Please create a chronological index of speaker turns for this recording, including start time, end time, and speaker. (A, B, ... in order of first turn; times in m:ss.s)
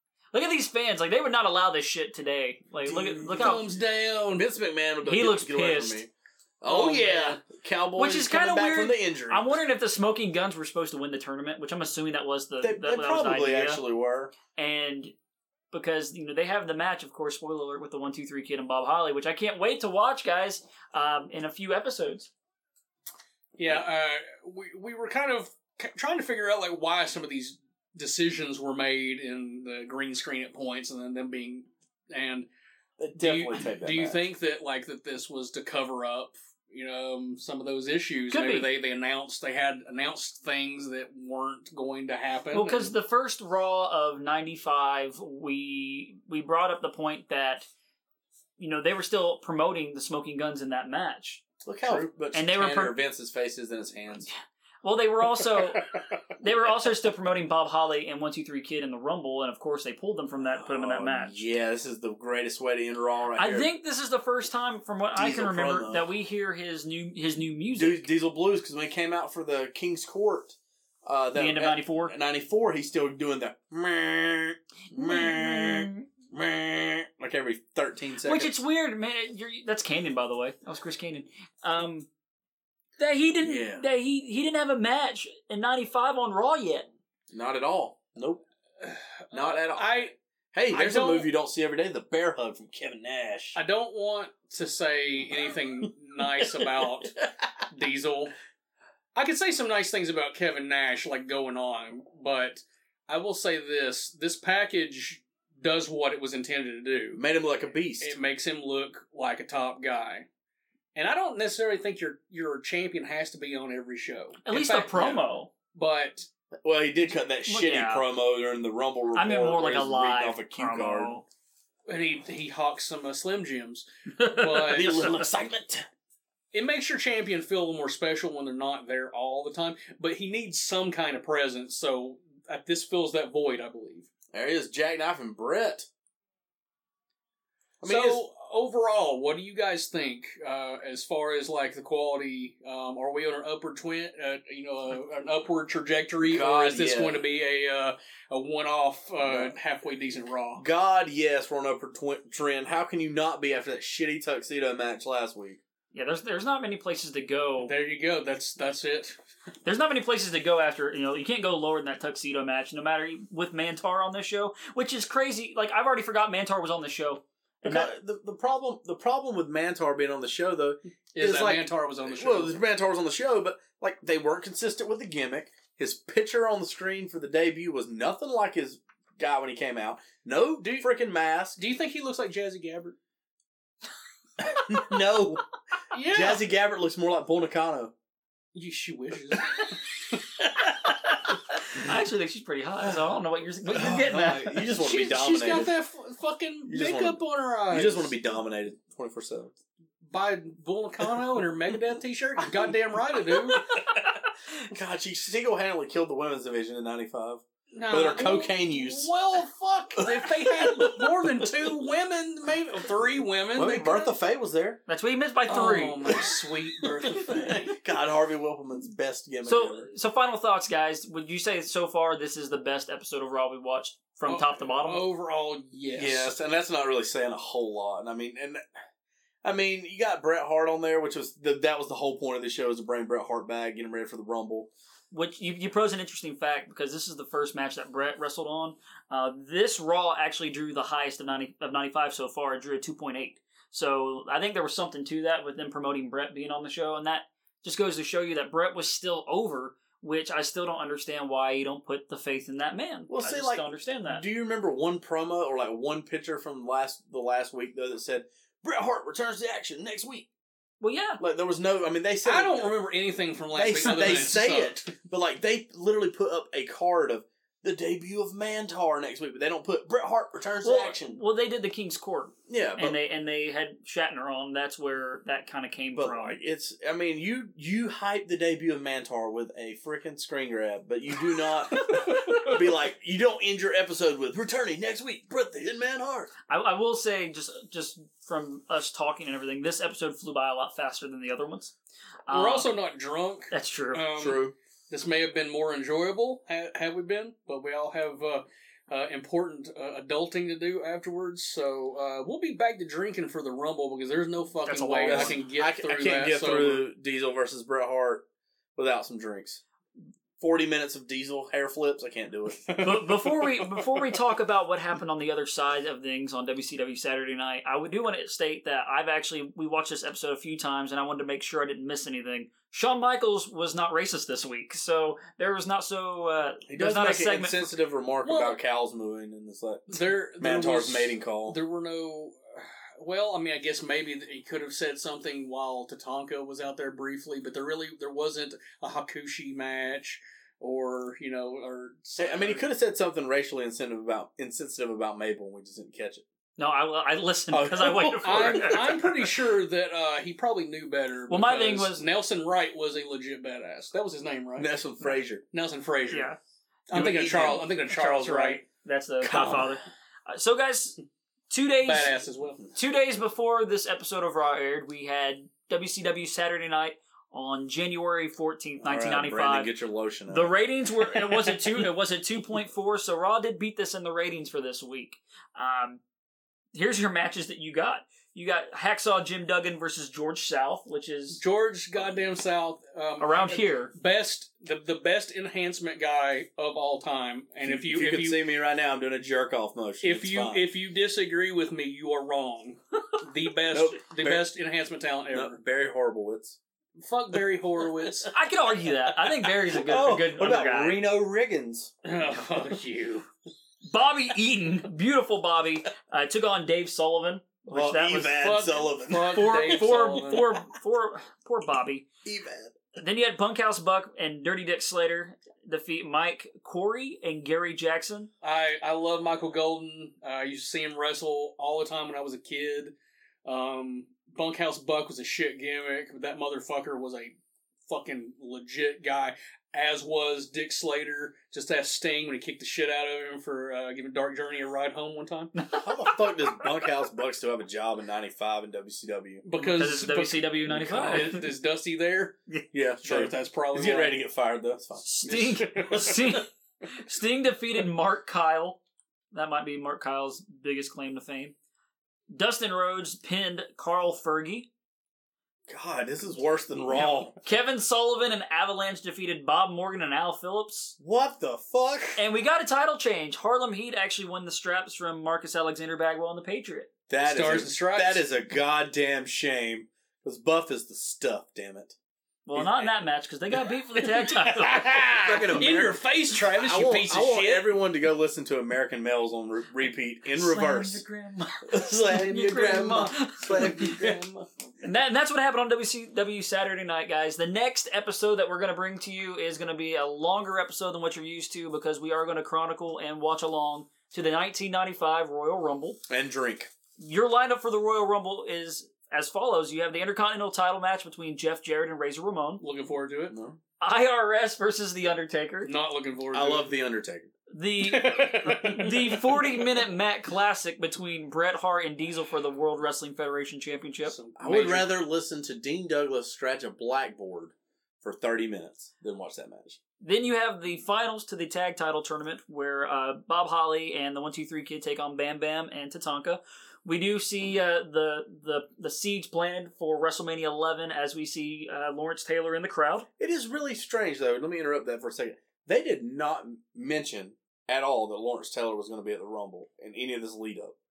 0:00.3-0:03.6 A
0:02.8-0:03.7 B
0:03.4-0:04.4 C
0:04.3-0:06.1 B
0:05.0-0:06.0 A
0:06.6-0:09.6 B
0:06.7-0:07.4 C
0:06.7-0:07.3 A
0:08.0-0:13.8 A
0:12.6-0:14.3 B
0:14.5-0:15.1 A
0:15.7-0:22.3 A
0:23.6-0:32.5 C
0:33.0-0:34.2 B
0:33.2-0:42.9 C
0:38.3-0:38.7 A
0:42.5-0:47.7 A
0:48.6-0:53.0 A
0:51.6-0:54.3 B
0:54.3-0:55.8 A
0:56.4-1:01.4 A
1:00.4-1:03.7 B
1:03.4-1:08.0 A
1:05.2-1:06.1 B
1:07.7-1:18.6 B
1:11.3-1:12.1 A
1:14.9-1:16.0 A
1:18.2-1:22.1 A
1:23.0-1:26.9 A
1:23.4-1:23.8 B
1:27.3-1:28.4 B
1:28.8-1:30.1 C
1:29.3-1:33.6 B
1:30.7-1:31.3 C
1:33.5-1:37.1 C
1:35.8-1:37.5 B
1:37.7-1:38.3 C
1:39.1-1:47.2 C
1:47.1-1:48.2 B
1:48.0-1:50.3 C
1:50.9-1:56.3 C
1:54.4-1:55.5 A
1:56.6-2:01.2 B
1:57.5-1:58.1 A
1:59.1-2:01.2 A
2:01.9-2:05.0 C
2:04.2-2:05.2 A
2:04.6-2:05.8 B
2:06.5-2:14.1 C
2:14.3-2:15.9 B
2:17.8-2:18.2 B
2:17.8-2:30.6 C
2:26.2-2:27.2 B
2:29.2-2:29.5 B
2:30.6-2:35.6 B
2:35.9-2:37.7 A
2:37.6-2:39.2 C
2:39.6-2:47.9 A
2:47.6-3:01.6 B
2:51.2-2:52.6 C
3:00.6-3:00.9 C
3:01.6-3:03.0 C
3:04.4-3:05.4 B
3:05.9-3:06.5 C
3:06.0-3:07.9 B
3:08.5-3:09.8 C
3:11.2-3:14.6 A
3:13.6-3:15.7 B
3:14.7-3:18.1 C
3:16.7-3:19.5 B
3:20.0-3:23.7 C
3:22.4-3:24.1 B
3:24.6-3:29.1 B
3:27.7-3:34.1 C
3:30.0-3:31.8 B
3:33.5-3:34.8 B
3:34.9-3:36.0 A
3:35.5-3:37.8 C
3:35.5-3:36.3 B
3:36.8-3:39.9 B
3:39.4-3:45.0 A
3:44.3-3:46.3 C
3:45.9-3:48.6 B
3:49.4-3:54.7 B
3:55.1-4:14.2 A
4:13.1-4:20.3 B
4:20.8-4:21.2 A
4:21.2-4:22.7 B
4:22.2-4:24.9 C
4:23.5-4:31.2 B
4:30.6-4:36.4 A
4:32.5-4:33.0 B
4:35.9-4:46.3 B
4:46.5-4:51.7 A
4:52.3-4:52.7 A
4:52.3-5:06.8 C
4:53.5-4:54.0 A
4:54.2-4:54.5 B
5:04.6-5:05.4 A
5:05.1-5:08.2 B
5:08.8-5:09.6 B
5:10.4-5:13.0 B
5:12.7-5:13.3 C
5:12.8-5:27.7 A
5:26.6-5:31.6 B
5:28.2-5:28.6 C
5:29.9-5:42.6 C
5:42.2-5:46.2 B
5:46.6-5:49.1 A
5:47.5-5:49.2 B
5:48.2-5:54.8 C
5:51.3-5:52.0 A
5:54.6-5:55.4 B
5:55.5-5:56.3 C
5:56.1-5:56.4 A
5:56.9-5:58.6 C
5:56.9-5:57.7 B
5:57.3-6:01.0 A
5:59.2-5:59.8 B
6:01.5-6:02.1 A
6:01.8-6:02.6 C
6:02.7-6:09.7 A
6:08.8-6:10.5 B
6:10.3-6:16.0 A
6:16.7-6:21.4 A
6:21.3-6:28.4 C
6:23.2-6:23.9 A
6:27.6-6:30.7 B
6:30.0-6:35.6 C
6:33.7-6:34.5 B
6:35.3-6:36.6 B
6:37.0-6:38.3 C
6:38.0-6:38.3 B
6:38.3-6:41.0 A
6:38.8-6:41.9 B
6:42.0-6:43.2 C
6:43.9-6:48.6 A
6:47.6-6:49.8 B
6:48.4-6:50.6 C
6:49.2-6:52.0 A
6:52.2-6:52.8 B
6:53.0-6:58.3 A
6:58.4-7:02.9 C
7:03.4-7:07.3 C
7:07.8-7:15.5 C
7:15.6-7:15.8 A
7:15.7-7:19.4 B
7:19.4-7:22.4 C
7:19.5-7:21.4 A
7:20.7-7:21.4 B
7:22.7-7:26.3 B
7:23.0-7:24.2 C
7:25.0-7:28.8 A
7:25.7-7:26.2 C
7:29.3-7:31.5 A
7:32.3-7:34.7 A
7:35.7-7:37.4 B
7:37.0-7:40.9 A
7:41.0-7:42.2 B
7:42.2-7:46.9 A
7:47.1-7:52.0 B
7:47.2-7:48.2 C
7:52.4-7:55.6 A
7:52.5-7:52.9 B
7:54.4-7:57.7 C
7:55.1-8:01.0 B
8:00.3-8:03.8 A
8:01.6-8:04.2 B
8:03.5-8:04.4 C
8:04.8-8:16.0 A
8:16.1-8:16.7 B
8:17.0-8:22.6 A
8:22.6-8:23.4 C
8:23.3-8:23.6 B
8:23.8-8:25.7 A
8:25.6-8:26.7 C
8:26.3-8:27.3 B
8:27.5-8:34.1 A
8:27.8-8:29.7 C
8:34.0-8:34.9 C
8:34.4-8:39.8 B
8:40.0-8:53.1 A
8:53.2-9:00.7 B